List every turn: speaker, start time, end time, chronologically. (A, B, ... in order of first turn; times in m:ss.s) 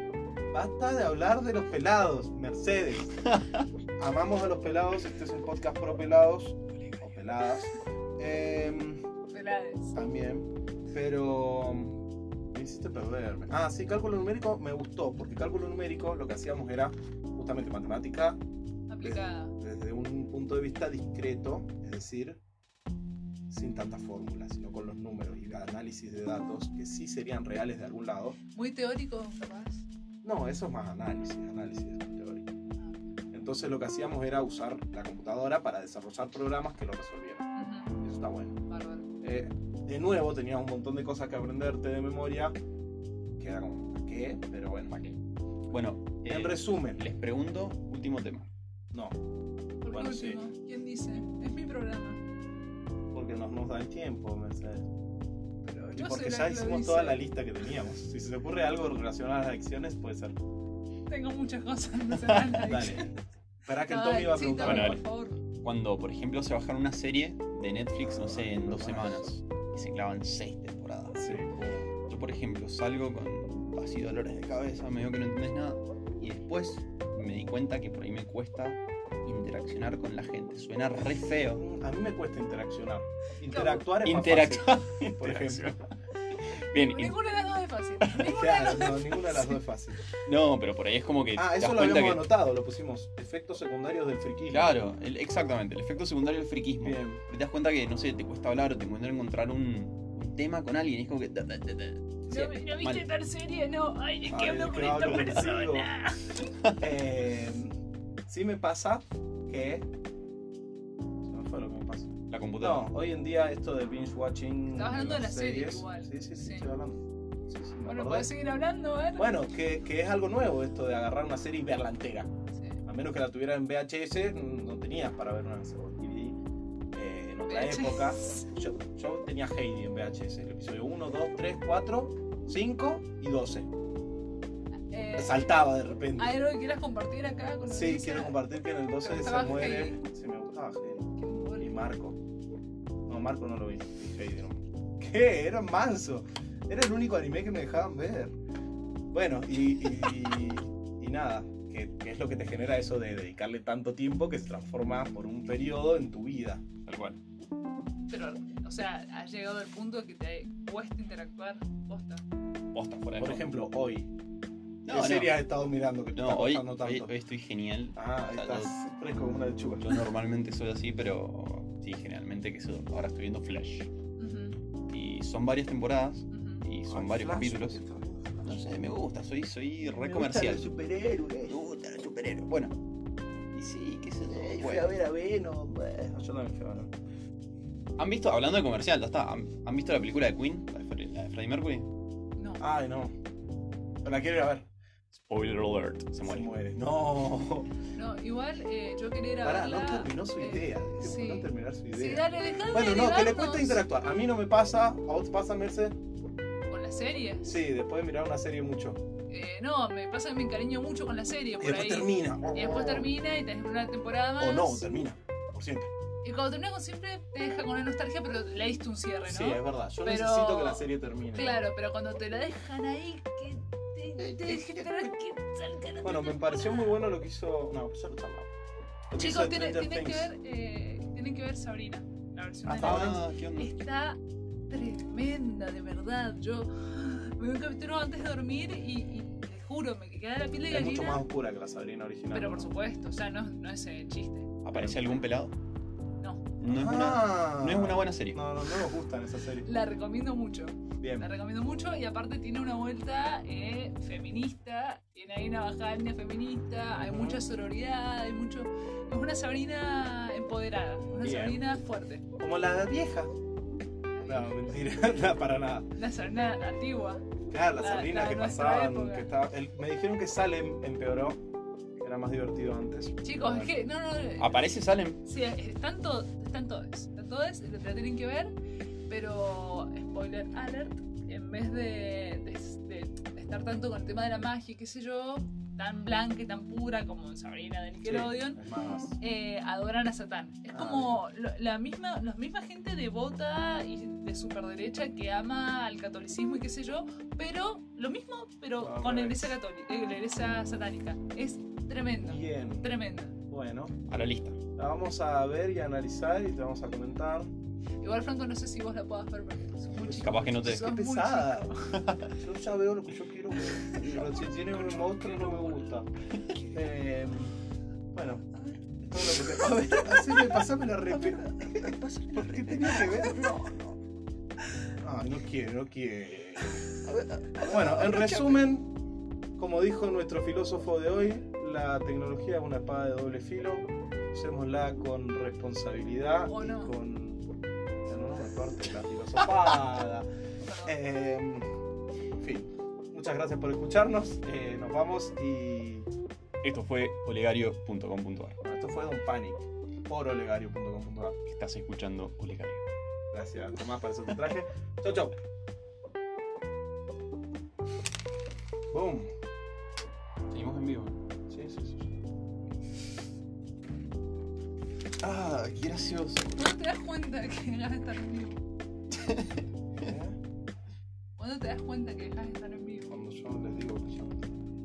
0:00.5-0:03.2 A
0:03.2-0:03.6 B
0:04.0-0:09.1 A
0:09.3-0:10.0 C
0:09.9-0:12.0 A
0:12.5-0:18.4 A
0:18.9-0:19.6 C
0:19.0-0:22.4 A
0:23.5-0:28.4 A
0:28.5-0:29.9 C
0:30.2-0:32.5 A
0:33.3-0:37.5 A
0:37.6-0:38.0 C
0:38.0-0:38.6 A
0:38.7-0:39.1 C
0:39.2-0:42.6 A
0:43.4-0:45.0 A
0:45.7-0:48.5 B
0:46.3-0:47.0 A
0:48.9-0:49.2 A
0:49.8-0:52.2 C
0:49.9-0:50.4 A
0:53.1-0:54.9 A
0:55.6-0:57.2 C
0:56.0-1:00.4 A
1:01.1-1:03.1 C
1:02.6-1:03.1 A
1:03.7-1:05.0 A
1:03.8-1:05.4 C
1:04.6-1:05.0 B
1:05.6-1:11.4 B
1:08.3-1:09.4 A
1:11.2-1:11.9 A
1:12.1-1:21.6 B
1:21.6-1:25.7 A
1:23.5-1:23.9 C
1:24.0-1:27.2 B
1:26.7-1:29.6 C
1:28.3-1:30.0 A
1:30.2-1:32.3 B
1:31.4-1:34.8 A
1:34.5-1:43.1 B
1:36.8-1:37.2 A
1:42.3-1:46.4 C
1:44.3-1:45.9 A
1:46.8-1:47.8 A
1:48.3-1:49.9 A
1:51.2-1:58.3 A
1:52.3-1:52.9 B
1:54.7-1:56.7 C
1:57.8-1:59.3 C
1:59.2-2:02.3 A
2:02.5-2:02.8 C
2:02.8-2:06.4 A
2:06.9-2:13.7 A
2:07.5-2:08.5 C
2:14.9-2:15.5 C
2:15.2-2:16.4 A
2:16.2-2:18.4 C
2:17.7-2:21.1 A
2:19.0-2:20.0 C
2:21.2-2:21.8 C
2:21.6-2:22.2 A
2:23.1-2:28.4 A
2:29.1-2:36.7 A
2:36.9-2:37.2 B
2:38.1-2:42.2 C
2:42.7-2:43.5 B
2:43.2-2:44.1 A
2:44.9-2:45.4 B
2:44.9-2:47.1 A
2:46.2-2:48.7 B
2:48.0-2:50.0 A
2:49.8-2:53.9 B
2:54.2-2:54.6 C
2:54.9-2:57.8 B
2:56.3-2:56.6 C
2:56.9-2:58.7 A
2:58.4-3:00.7 B
3:00.0-3:01.6 A
3:01.5-3:02.8 B
3:03.5-3:04.9 B
3:04.3-3:06.9 A
3:08.0-3:11.9 B
3:12.4-3:12.6 C
3:12.6-3:13.2 A
3:14.0-3:14.7 A
3:15.1-3:16.5 B
3:16.2-3:17.7 A
3:17.9-3:23.8 C
3:19.4-3:26.0 A
3:26.7-3:27.6 C
3:27.4-3:29.0 A
3:29.3-3:35.0 C
3:31.6-3:33.1 A
3:34.4-3:35.9 A
3:36.2-3:47.0 C
3:39.3-3:41.7 A
3:46.0-3:48.5 A
3:49.1-3:50.3 A
3:49.2-4:01.2 C
3:52.7-3:53.2 A
3:52.7-3:53.7 B
4:00.7-4:02.7 A
4:02.3-4:04.5 C
4:04.6-4:05.5 B
4:04.7-4:05.0 A
4:06.2-4:06.5 C
4:06.6-4:08.4 B
4:06.7-4:09.7 A
4:09.6-4:22.2 C
4:11.0-4:11.3 A
4:17.0-4:17.4 A
4:21.2-4:21.8 A
4:22.4-4:23.3 A
4:24.1-4:25.0 C
4:24.2-4:25.9 A
4:26.0-4:27.2 C
4:27.5-4:31.4 A
4:27.8-4:29.3 C
4:32.0-4:33.7 A
4:33.2-4:38.5 C
4:34.4-4:35.2 B
4:39.1-4:48.6 C
4:48.0-4:49.2 A
4:49.2-5:03.4 C
4:50.7-4:51.2 A
4:58.8-4:59.6 A
5:02.2-5:02.9 A
5:03.5-5:04.0 A
5:04.1-5:04.6 B
5:04.8-5:07.5 A
5:08.0-5:12.0 C
5:10.0-5:11.7 A
5:10.1-5:11.0 B
5:11.9-5:12.3 B
5:12.4-5:16.1 A
5:14.0-5:14.4 B
5:14.2-5:15.9 C
5:16.7-5:17.6 A
5:18.1-5:18.5 A
5:19.0-5:23.7 A
5:21.1-5:23.9 B
5:25.0-5:26.9 A
5:27.1-5:28.7 B
5:27.7-5:28.9 A
5:29.6-5:37.4 A
5:36.5-5:36.9 C
5:38.0-5:40.3 A
5:40.7-5:41.0 C
5:40.8-5:41.7 A
5:42.4-5:46.1 A
5:46.6-5:48.6 B
5:48.6-5:51.4 A
5:51.5-5:52.8 B
5:53.3-5:55.4 A
5:58.9-5:59.3 A
6:00.5-6:01.2 B
6:01.5-6:02.2 A
6:05.2-6:06.6 B
6:06.6-6:08.6 C
6:09.2-6:10.0 B
6:10.0-6:10.4 A
6:11.4-6:13.1 C
6:13.1-6:14.5 A